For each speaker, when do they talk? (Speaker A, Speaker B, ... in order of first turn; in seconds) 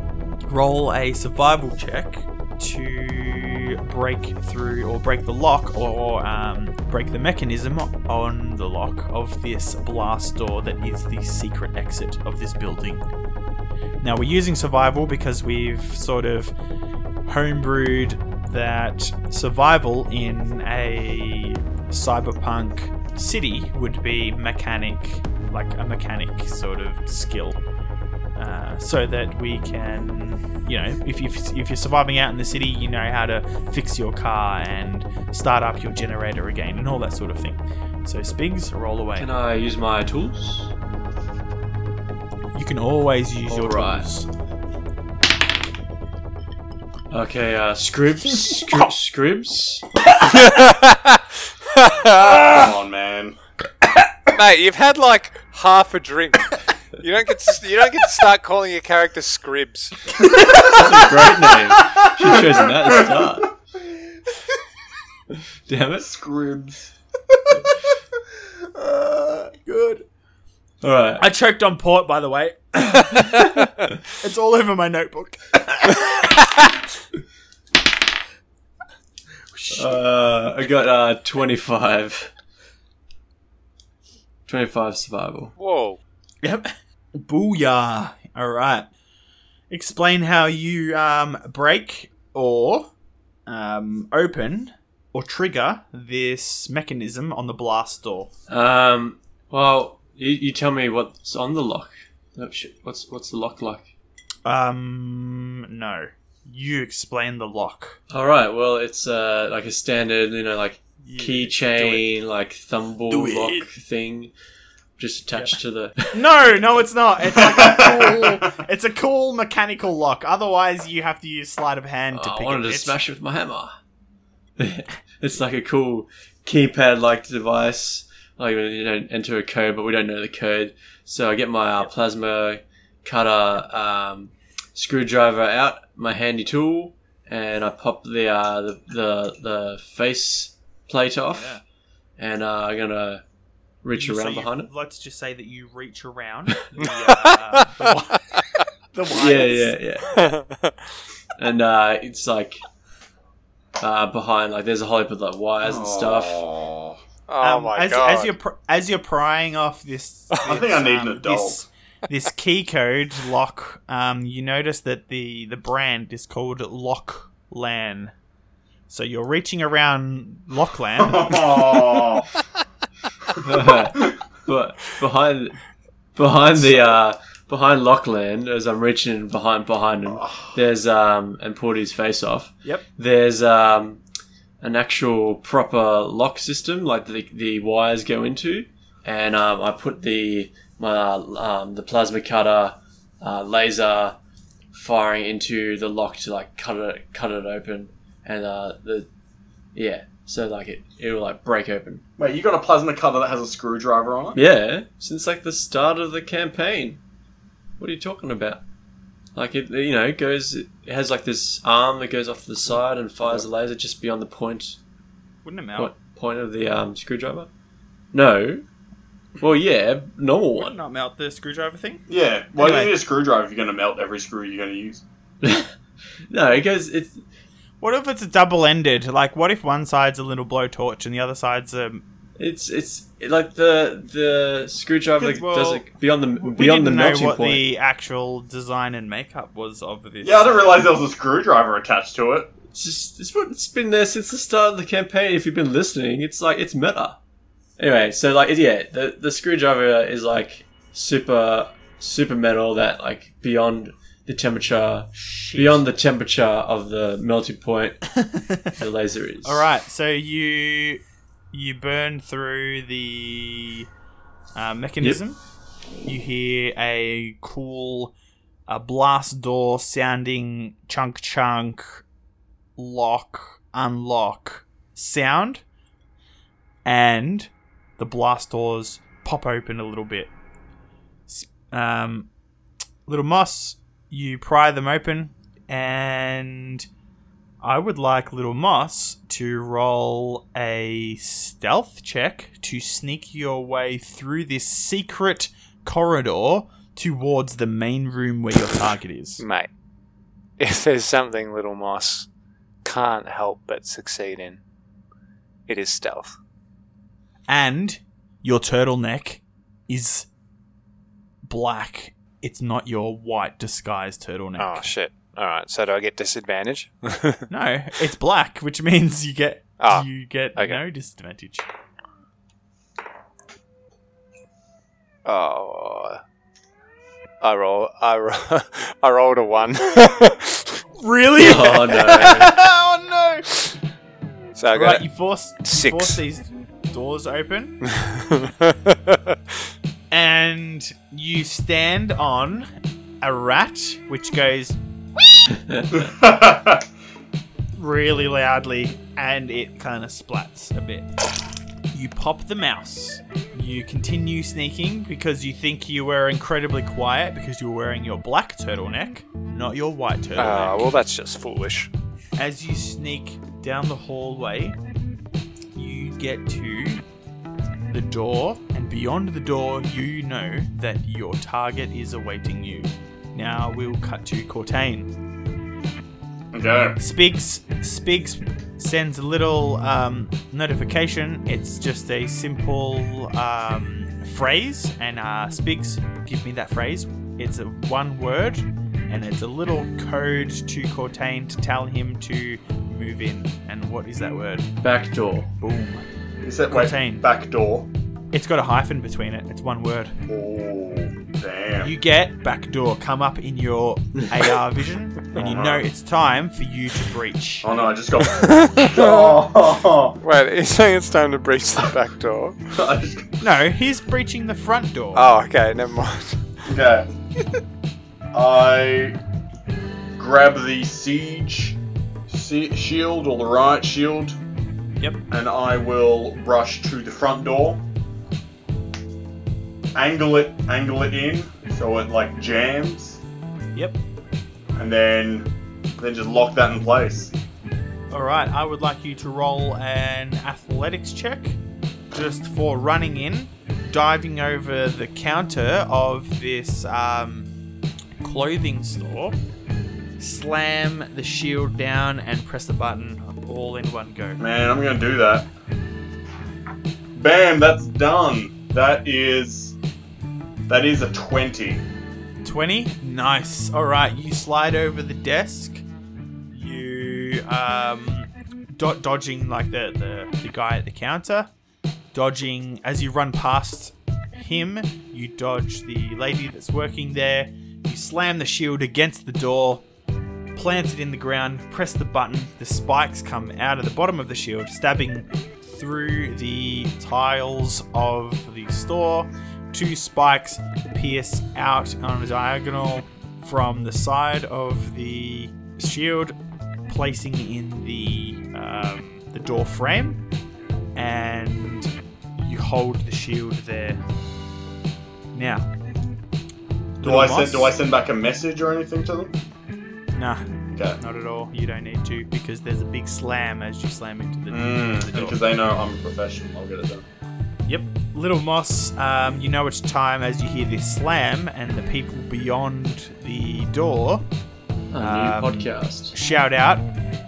Speaker A: 0.5-13.1, 14.0-16.5, 17.2-27.6, 28.4-39.3, 42.5-44.3, 60.2-60.9, 61.7-62.1, 68.8-70.0, 71.2-76.3, 79.5-80.0, 86.4-88.9, 89.7-92.9, 93.5-98.3, 104.5-108.0, 111.0-112.0, 113.1-113.7, 116.1-123.0, 141.3-141.6, 143.9-148.2, 148.9-149.8, 157.4-168.1, 168.9-172.1, 215.4-215.9, 220.6-222.1, 222.6-222.9, 227.8-232.0, 235.2-235.8, 236.4-240.9, 255.2-255.8, 258.3-258.7, 259.4-263.9, 264.6-265.4, 266.0-268.1, 268.7-272.0, 272.8-275.6, 276.9-280.3, 281.3-282.3, 283.1-286.9, 287.6-299.4, 307.5-310.3, 311.5-314.9, 317.5-321.6, 331.0-333.8, 334.7-338.0, 340.1-342.7, 343.2-344.8, 347.8-351.1, 351.9-360.9, 362.4-364.8, 365.8-367.0, 367.9-375.1, 377.0-394.7, 395.6-396.0, 396.7-397.2, 398.3-400.2, 401.8-407.7, 413.4-415.3, 438.1-441.6, 442.1-447.5, 448.2-449.4, 450.2-454.4, 462.4-465.9, 466.5-471.5, 472.1-479.9, 480.6-496.4, 496.9-500.2, 500.9-504.0, 505.3-505.7, 507.0-507.8, 510.2-510.5, 511.0-515.4, 517.7-524.2, 525.0-526.9
Speaker B: 39.2-40.7, 43.5-44.1, 47.1-49.9, 60.6-63.5, 65.7-66.1, 70.8-71.2, 79.8-82.3, 84.5-85.5, 98.5-103.9, 108.1-114.3, 115.0-116.1, 122.1-123.8, 124.6-141.6, 142.2-143.2, 143.8-144.7, 149.1-150.1, 151.4-152.6, 153.8-156.4, 173.4-175.6, 176.2-184.0, 184.6-194.2, 194.7-199.1, 199.8-202.0, 204.3-207.0, 207.8-208.6, 209.3-214.8, 215.8-217.5, 218.1-218.7, 219.4-220.8, 225.4-225.7, 226.3-227.2, 232.4-237.6, 242.7-247.2, 247.8-258.2, 258.8-259.7, 331.4-332.6, 394.8-395.5, 524.9-526.1
Speaker C: 50.3-52.7, 54.3-60.1, 85.6-86.0, 146.8-148.6, 150.1-150.8, 157.3-158.3, 299.4-299.7, 300.6-302.3, 302.8-304.6, 305.7-306.4, 314.6-317.5, 319.8-320.8, 325.2-326.2, 327.4-330.7, 334.6-335.1, 335.6-336.2, 338.0-339.4, 360.4-361.9, 408.4-409.4, 410.2-412.7, 415.1-416.4
Speaker D: 52.1-53.4, 66.0-66.9, 117.3-118.5, 155.6-157.0, 160.4-161.6, 171.0-172.3, 180.1-180.6, 202.2-204.4, 222.1-225.0, 240.2-242.5, 345.9-346.9, 376.5-377.0, 396.4-397.9, 400.3-401.9, 405.4-405.9, 407.6-410.2, 412.8-413.3, 416.7-417.1, 418.3-419.2, 420.2-421.8, 422.3-424.4, 425.3-427.8, 429.9-433.2, 434.8-437.3, 454.4-455.5, 457.2-459.8, 460.7-461.9, 507.0-509.3, 510.7-511.0, 514.5-517.1